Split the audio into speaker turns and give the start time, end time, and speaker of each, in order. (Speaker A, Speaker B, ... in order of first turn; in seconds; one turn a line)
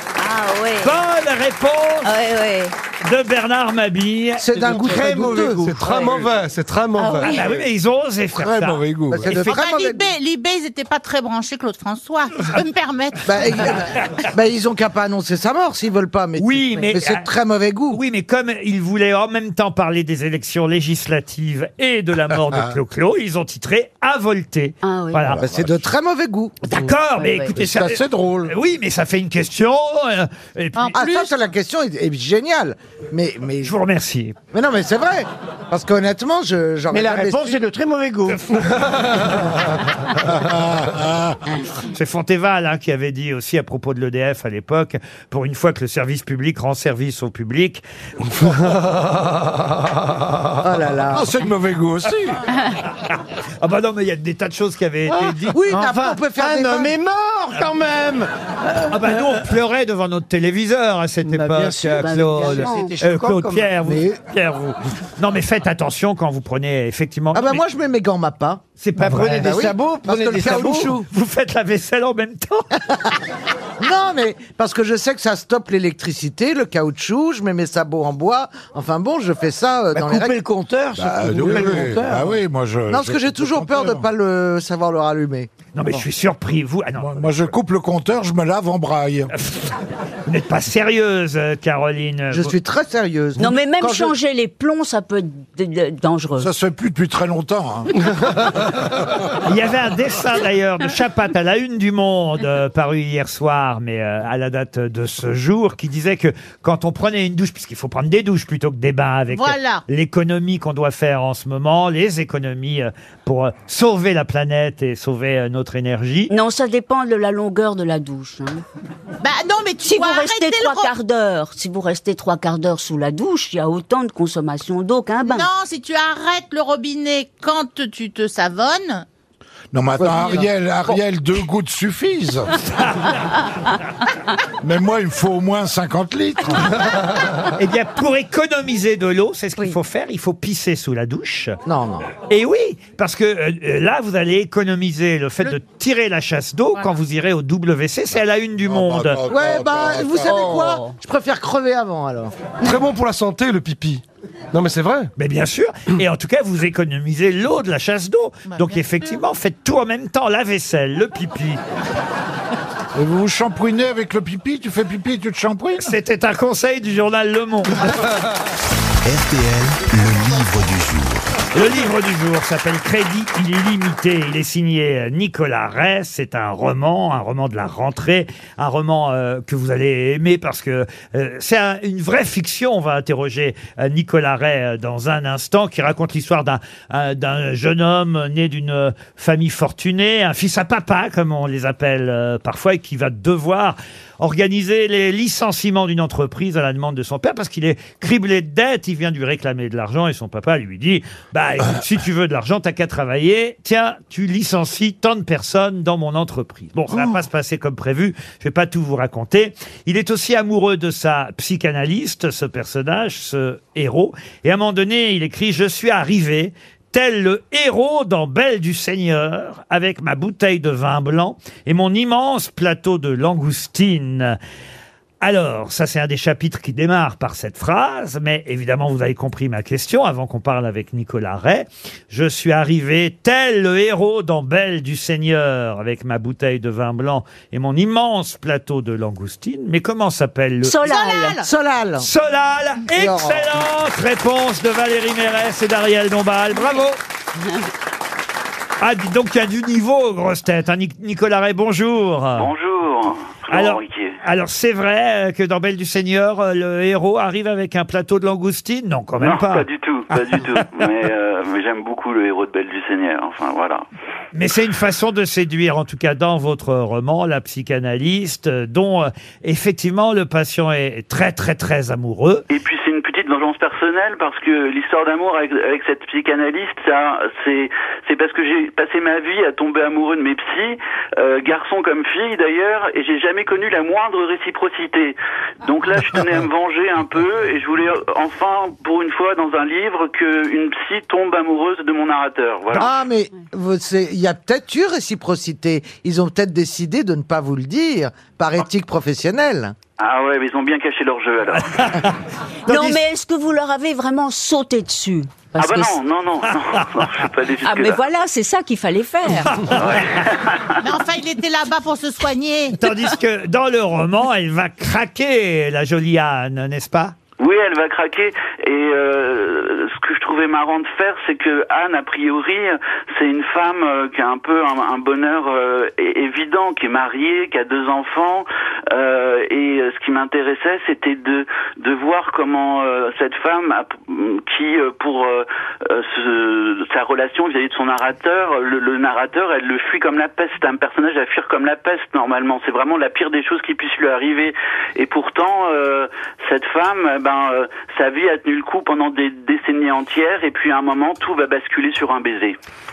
Speaker A: 0.2-1.0
Speaker B: 0.8-2.1
Speaker A: 2.0-2.7
Speaker B: 3.0-4.5
Speaker C: 4.4-5.9
Speaker D: 4.6-7.4
Speaker E: 4.7-5.6
Speaker A: 7.0-7.5
Speaker B: 7.2-9.6
Speaker F: 8.3-9.3
Speaker C: 9.1-10.0
Speaker G: 9.4-13.7
Speaker C: 13.2-18.0
Speaker B: 16.4-17.2
Speaker B: 17.9-25.4
Speaker F: 22.4-22.7
Speaker A: 24.8-25.4
Speaker F: 25.3-25.9
Speaker C: 25.4-26.6
Speaker B: 26.6-31.0
Speaker A: 26.8-27.5
Speaker F: 27.5-28.5
Speaker G: 30.8-31.3
Speaker C: 30.9-33.7
Speaker B: 33.6-34.4
Speaker C: 34.5-37.6
Speaker E: 36.9-38.7
Speaker F: 40.2-41.4
Speaker B: 41.9-47.8
Speaker D: 48.4-49.3
Speaker C: 50.6-51.3
Speaker F: 51.1-52.4
Speaker B: 53.1-55.6
Speaker E: 55.1-59.4
Speaker C: 55.5-56.9
Speaker B: 58.9-67.6
Speaker E: 61.2-64.0
Speaker A: 62.0-63.0
Speaker C: 67.3-71.0
Speaker B: 68.8-69.6
Speaker E: 69.0-71.0
Speaker B: 71.1-72.7
Speaker C: 73.8-80.4
Speaker E: 79.9-82.4
Speaker F: 81.0-84.1
Speaker C: 81.5-81.8
Speaker C: 82.9-85.5
Speaker B: 85.7-87.5
Speaker F: 87.0-89.3
Speaker B: 89.3-92.5
Speaker C: 92.3-94.1
Speaker A: 93.4-96.5
Speaker F: 96.4-97.9
Speaker B: 99.4-116.3
Speaker G: 109.3-109.8
Speaker A: 116.3-118.6
Speaker G: 119.2-120.9
Speaker A: 119.8-125.5
Speaker G: 125.2-129.1
Speaker F: 129.7-132.5
Speaker F: 134.6-136.7
Speaker B: 137.5-141.6
Speaker C: 141.7-142.1
Speaker B: 142.3-149.2
Speaker F: 148.6-150.7
Speaker C: 149.3-152.3
Speaker D: 152.6-155.1
Speaker B: 155.2-161.6
Speaker G: 158.5-158.8
Speaker F: 162.9-165.9
Speaker B: 165.8-167.9
Speaker H: 169.0-171.4
Speaker B: 171.5-224.4
Speaker B: 225.2-240.8
Speaker A: 240.6-241.4
Speaker G: 240.8-241.5
Speaker C: 241.4-242.1
Speaker B: 242.0-247.0
Speaker C: 242.9-243.6
Speaker B: 248.8-252.5
Speaker I: 252.3-254.2
Speaker B: 253.5-259.6
Speaker I: 259.2-263.8
Speaker B: 264.3-272.4
Speaker I: 272.5-292.9
Speaker C: 292.8-299.7
Speaker I: 300.0-301.8
Speaker B: 301.5-303.0
Speaker A: 302.7-306.0
Speaker I: 305.6-308.0
Speaker A: 307.6-309.6
Speaker B: 309.5-310.0
Speaker I: 309.7-310.8
Speaker G: 310.8-312.8
Speaker B: 312.8-317.1
Speaker I: 317.4-352.5